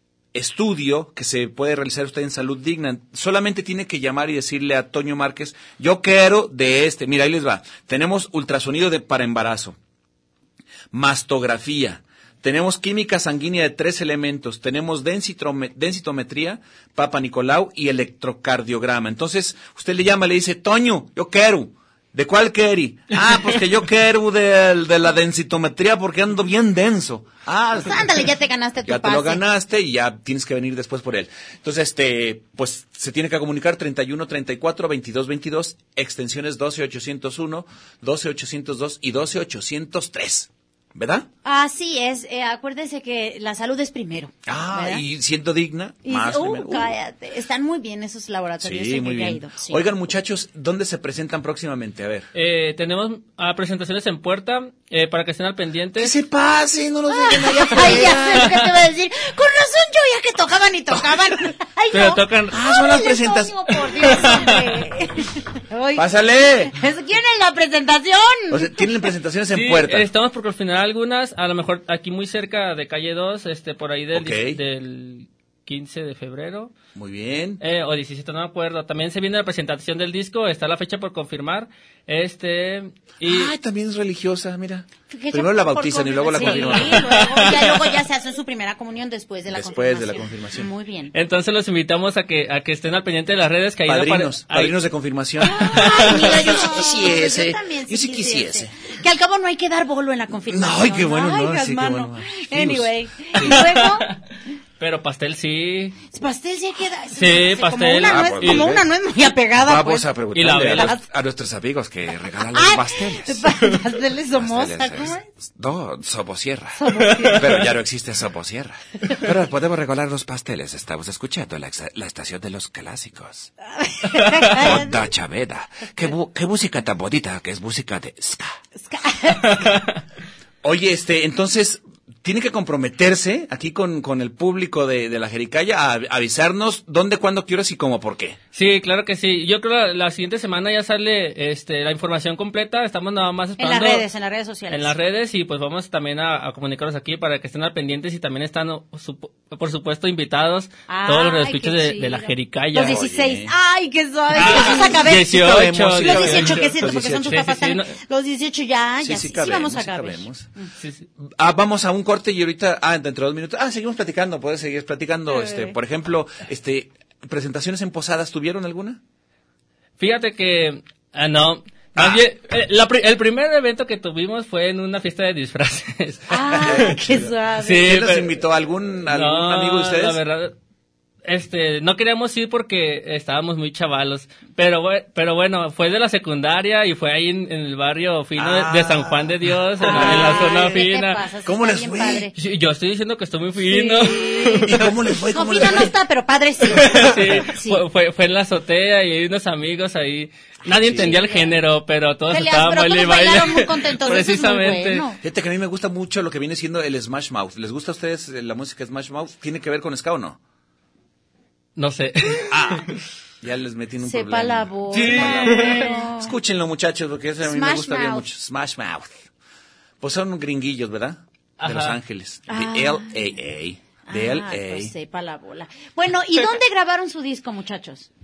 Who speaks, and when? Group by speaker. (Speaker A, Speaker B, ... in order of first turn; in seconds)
Speaker A: 0.3-9.8, 10.9-28.1, 28.9-41.3, 44.5-46.9, 48.6-52.3, 56.0-58.6, 62.5-64.4, 66.0-66.7, 68.5-70.1, 74.1-74.6, 76.9-77.6, 83.2-87.4, 89.5-90.7, 93.8-98.7, 100.5-103.6, 108.0-108.8, 109.5-113.5, 114.3-123.5, 124.5-128.6, 130.6-138.4, 152.8-153.5, 154.4-157.4, 159.0-160.5, 161.2-169.0, 171.9-172.2, 176.6-180.2, 188.3-190.5, 191.4-192.3, 194.6-195.9, 200.8-201.1, 205.2-210.4, 212.5-219.2, 220.0-224.9
Speaker B: 27.8-29.4, 41.4-45.0, 46.0-49.8, 57.1-66.0, 66.7-68.9, 85.1-91.1, 95.4-104.1, 106.1-111.0, 112.5-115.3, 116.8-117.5, 123.7-125.0, 128.8-129.7, 143.6-144.9, 150.9-155.4, 156.0-160.7, 165.3-165.8, 176.3-177.9, 189.8-192.3, 193.6-194.7, 195.3-197.8, 200.7-201.6, 202.3-205.2, 214.0-216.3, 217.4-218.3, 222.5-223.2, 224.1-228.1
Speaker C: 52.3-56.1, 57.8-58.5, 61.9-62.6, 64.0-64.6, 69.5-76.7, 77.6-83.5, 86.4-87.6, 91.1-94.7, 95.7-96.4, 103.4-104.2, 104.8-106.0, 107.2-108.7, 110.3-111.0, 117.0-117.6, 129.4-130.0, 138.5-144.0, 144.7-153.0, 154.3-158.0, 160.8-161.1, 170.0-176.9, 177.6-178.4, 179.1-180.5, 181.2-191.2, 192.3-194.9, 196.8-205.1, 211.8-212.8, 214.9-216.0, 221.6-222.0